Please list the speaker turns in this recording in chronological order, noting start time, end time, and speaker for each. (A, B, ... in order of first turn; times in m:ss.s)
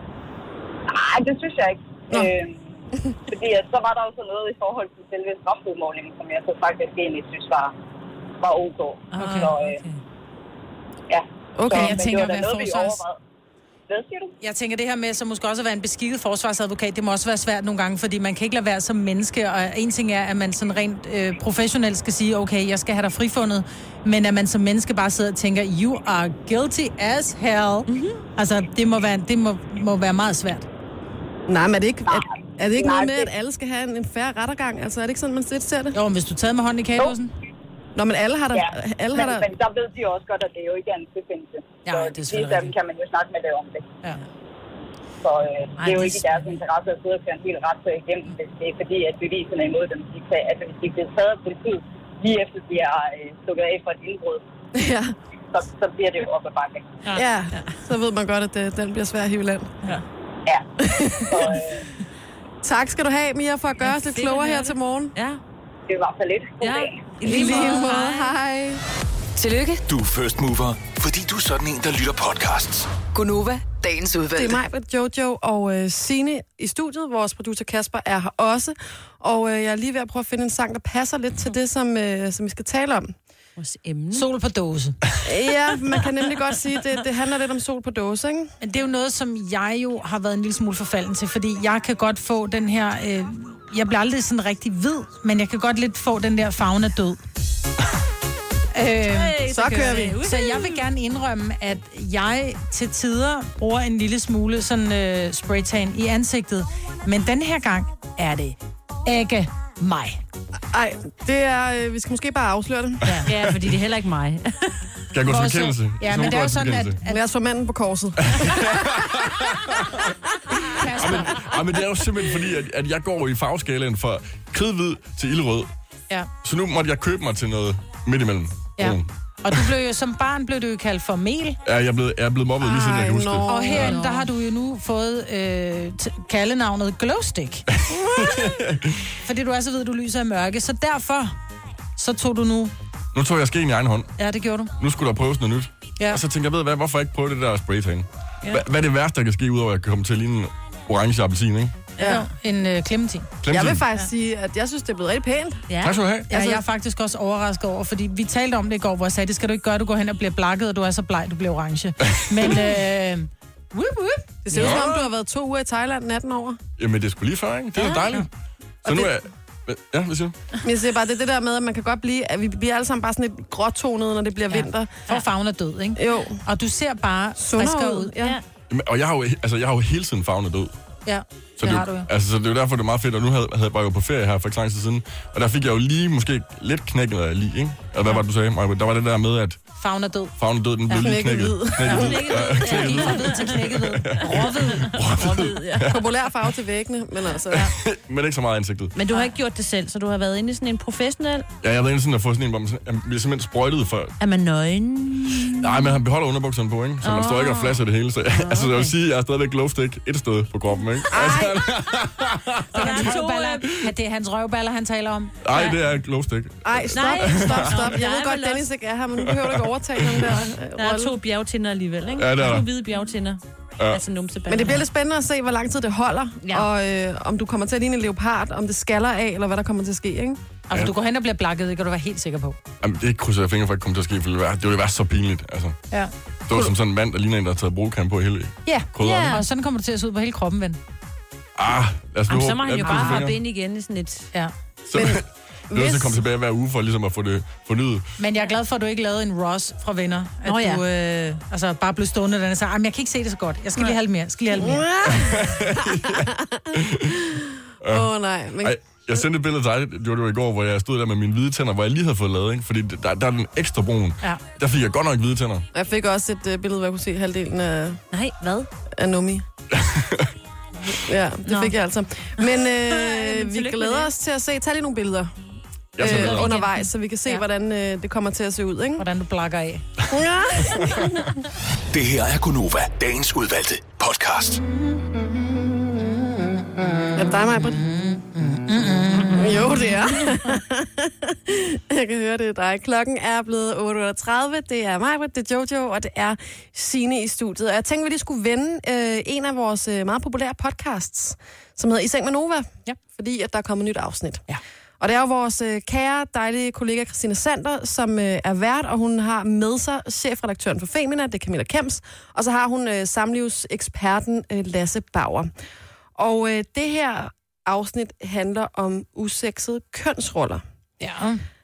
0:00.9-0:02.6 A
0:03.3-0:07.7 A
0:08.4-0:09.8 A
0:09.1-0:10.0 B
0:09.2-0:09.5 C
0:11.1-0:13.2 A
0:11.6-0:12.0 D
0:11.7-0:13.0 C
0:13.9-0:14.3 A
0:14.4-0:30.7 C
0:31.5-0:36.0 D
0:32.1-0:33.3 A
0:35.9-0:37.3 C
0:38.0-0:39.5 D
0:38.5-0:43.9 A
0:41.8-0:42.7 C
0:45.2-0:54.4 A
0:45.8-0:46.4 C
0:54.7-0:55.1 D
0:55.5-0:57.0 A
0:57.0-0:57.8 B
0:57.1-0:59.7 D
1:00.8-1:01.6 D
1:01.2-1:01.8 A
1:02.6-1:05.1 D
1:03.8-1:05.4 B
1:05.9-1:07.1 A
1:06.6-1:08.3 B
1:07.2-1:08.8 D
1:09.4-1:09.8 E
1:09.8-1:12.9 F
1:13.1-1:14.6 E
1:14.3-1:23.1 D
1:23.6-1:24.3 B
1:24.1-1:25.0 C
1:25.2-1:28.5 D
1:28.6-1:37.2 C
1:38.7-1:39.4 C
1:39.0-1:40.8 B
1:39.4-1:40.2 D
1:40.2-1:50.2 C
1:50.7-1:53.1 D
1:53.2-1:54.8 B
1:55.1-1:57.0 G
1:55.2-1:57.2 C
1:57.0-1:59.0 D
1:58.2-2:00.1 G
2:00.7-2:01.5 C
2:00.8-2:05.7 G
2:06.4-2:09.7 G
2:08.8-2:11.6 C
2:11.6-2:13.9 G
2:12.6-2:14.0 D
2:13.5-2:17.6 C
2:13.7-2:14.3 B
2:17.7-2:19.1 G
2:19.2-2:21.4 C
2:22.0-2:22.7 C
2:23.1-2:24.1 G
2:24.2-2:24.7 C
2:24.8-2:31.9 G
2:32.0-2:32.3 B
2:32.0-2:34.1 C
2:33.4-2:33.8 G
2:33.5-2:35.7 D
2:35.7-2:36.0 B
2:35.8-2:36.3 G
2:36.3-2:36.6 D
2:36.3-2:44.8 C
2:44.4-2:46.6 D
2:44.5-2:44.8 B
2:44.6-2:44.8 G
2:46.8-2:48.3 G
2:47.8-2:48.1 B
2:48.8-2:49.1 D
2:48.8-2:50.4 G
2:50.6-2:55.0 D
2:54.5-2:58.2 C
2:56.0-2:56.4 D
2:57.4-2:58.4 D
2:58.7-3:00.7 G
3:01.0-3:02.1 C
3:01.6-3:09.7 G
3:09.8-3:10.3 C
3:10.4-3:16.0 G
3:10.9-3:11.2 C
3:10.9-3:12.3 D
3:11.7-3:15.0 C
3:11.9-3:16.0 B
3:15.9-3:17.7 D
3:17.5-3:18.9 G
3:18.9-3:21.5 B
3:21.6-3:24.2 G
3:24.2-3:26.0 B
3:25.6-3:33.1 G
3:27.0-3:28.9 B
3:31.0-3:31.4 B
3:31.1-3:31.6 D
3:32.7-3:33.7 B
3:32.7-3:35.4 C
3:35.4-3:37.9 G
3:35.5-3:35.8 B
3:36.6-3:41.1 D
3:36.8-3:38.6 B
3:39.2-3:40.4 G
3:40.8-3:44.8 B
3:42.2-3:42.7 G
3:44.5-3:50.4 D
3:46.4-3:46.7 B
3:50.7-3:52.6 C
3:52.8-3:55.8 G
3:56.5-3:59.4 G
3:58.6-4:00.8 C
3:59.0-3:59.4 B
4:01.6-4:03.4 G
4:02.3-4:04.3 B
4:02.8-4:03.3 C
4:04.8-4:08.1 G
4:04.9-4:06.2 D
4:08.2-4:14.9 C
4:10.4-4:10.8 B
4:14.6-4:16.7 D
4:15.0-4:17.2 G
4:17.3-4:19.2 D
4:17.8-4:25.7 G
4:25.7-4:28.0 D
4:28.1-4:28.7 B
4:29.0-4:29.4 D
4:29.7-4:30.3 G
4:30.9-4:35.3 D
4:31.5-4:31.7 C
4:32.5-4:34.1 B
4:36.0-4:36.5 G
4:36.0-4:39.0 D
4:36.0-4:36.9 B
4:39.0-4:39.9 C
4:40.1-4:41.2 D
4:41.9-4:44.6 F
4:47.1-4:47.8 D
4:47.8-4:50.2 C
4:49.3-5:04.4 D
5:05.0-5:15.5 D
5:16.2-5:20.6 D
5:21.0-5:21.4 C